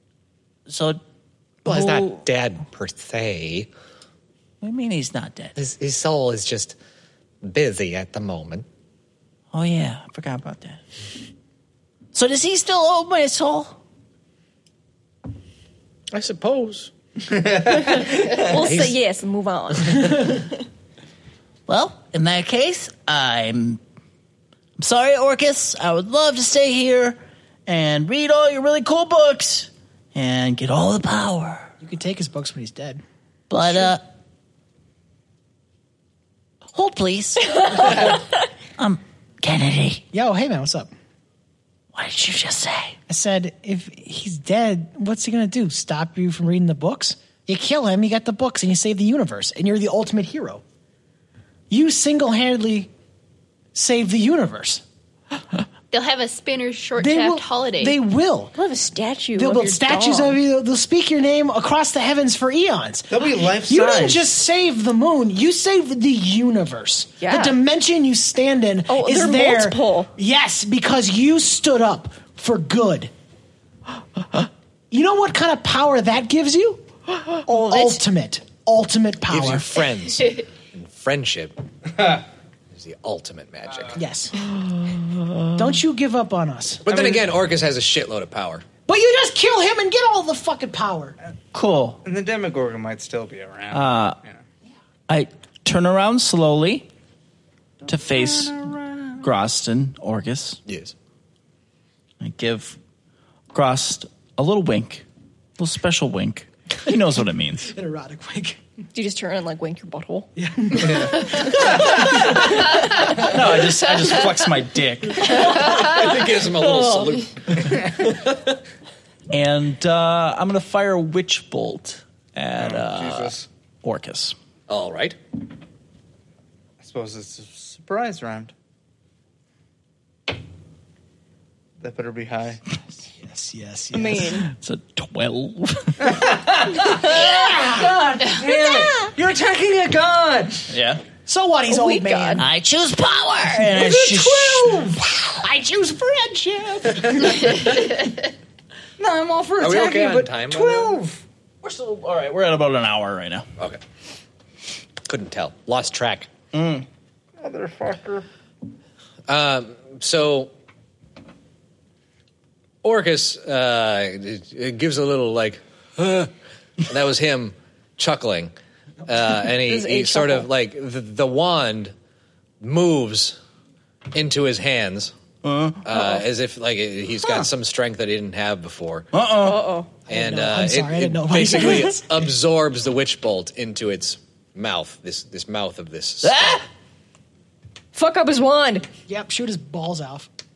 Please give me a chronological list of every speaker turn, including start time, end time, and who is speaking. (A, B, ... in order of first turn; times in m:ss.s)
0:00.7-0:01.0 A
0:01.6-0:02.2 A
0:01.6-0:03.7 B
0:04.6-0:05.5 A
0:05.6-0:06.8 B
0:07.4-0:08.7 B
0:09.5-0:10.8 A
0:12.1-0:13.8 A
0:16.1-0:16.9 B
0:17.3-0:18.2 C
0:17.7-0:20.6 D
0:18.5-0:18.9 B
0:21.7-0:23.8 A
0:24.8-0:31.7 A
0:31.8-0:33.0 E
0:33.5-0:34.0 A
0:36.7-0:38.2 A
0:38.8-0:40.0 A
0:40.1-0:40.9 E
0:42.0-0:43.0 A
0:43.1-0:50.6 E
0:51.7-0:52.9 E
0:53.8-0:54.8 E
0:55.9-0:58.0 F
0:57.0-0:58.6 E
0:58.6-1:00.4 D
0:59.4-1:13.1 E
1:03.1-1:04.3 C
1:07.2-1:07.6 D
1:08.9-1:10.1 D
1:14.9-1:16.9 E
1:17.3-1:18.0 D
1:17.5-1:19.7 E
1:19.3-1:21.6 B
1:22.7-1:24.0 B
1:24.0-1:24.4 E
1:24.4-1:25.5 A
1:25.6-1:26.9 E
1:26.9-1:28.6 B
1:26.9-1:27.3 C
1:28.9-1:31.2 E
1:31.5-1:32.0 A
1:32.0-1:34.4 C
1:33.8-1:34.1 A
1:33.8-1:34.1 G
1:35.1-1:36.9 A
1:37.8-1:39.2 C
1:37.9-1:38.5 G
1:39.2-1:40.6 G
1:40.7-1:40.9 B
1:42.2-1:42.8 G
1:43.5-1:45.0 G
1:45.6-1:47.7 G
1:47.7-1:48.6 E
1:48.9-1:50.3 D
1:50.4-1:52.2 E
1:51.3-1:52.1 D
1:52.2-1:55.3 G
1:55.2-1:55.6 D
1:55.2-1:57.3 B
1:55.7-1:56.0 F
1:56.4-1:57.2 D
1:59.3-2:04.4 G
2:02.6-2:03.5 C
2:04.7-2:05.2 B
2:06.8-2:08.5 C
2:11.8-2:12.6 C
2:13.2-2:14.4 E
2:13.9-2:14.5 D
2:14.4-2:16.3 G
2:16.0-2:16.8 C
2:16.8-2:19.0 E
2:17.9-2:20.7 C
2:20.7-2:21.0 G
2:21.2-2:22.4 E
2:21.7-2:22.5 D
2:22.4-2:24.7 A
2:24.1-2:24.8 C
2:24.2-2:27.8 E
2:29.0-2:31.2 C
2:29.6-2:31.0 B
2:31.6-2:33.5 G
2:35.1-2:36.3 B
2:36.5-2:36.9 G
2:37.4-2:38.3 C
2:39.3-2:40.5 B
2:42.8-2:46.3 B
2:46.8-2:48.5 B
2:49.1-2:51.9 B
2:49.5-2:50.5 D
2:52.6-2:53.4 B
2:54.1-2:55.1 B
2:55.4-2:56.0 G
2:55.8-2:59.1 B
2:59.1-2:59.7 G
2:59.4-2:59.9 D
3:00.1-3:02.2 E
3:00.1-3:06.6 B
3:06.2-3:06.6 A
3:07.9-3:08.9 D
3:09.1-3:10.3 E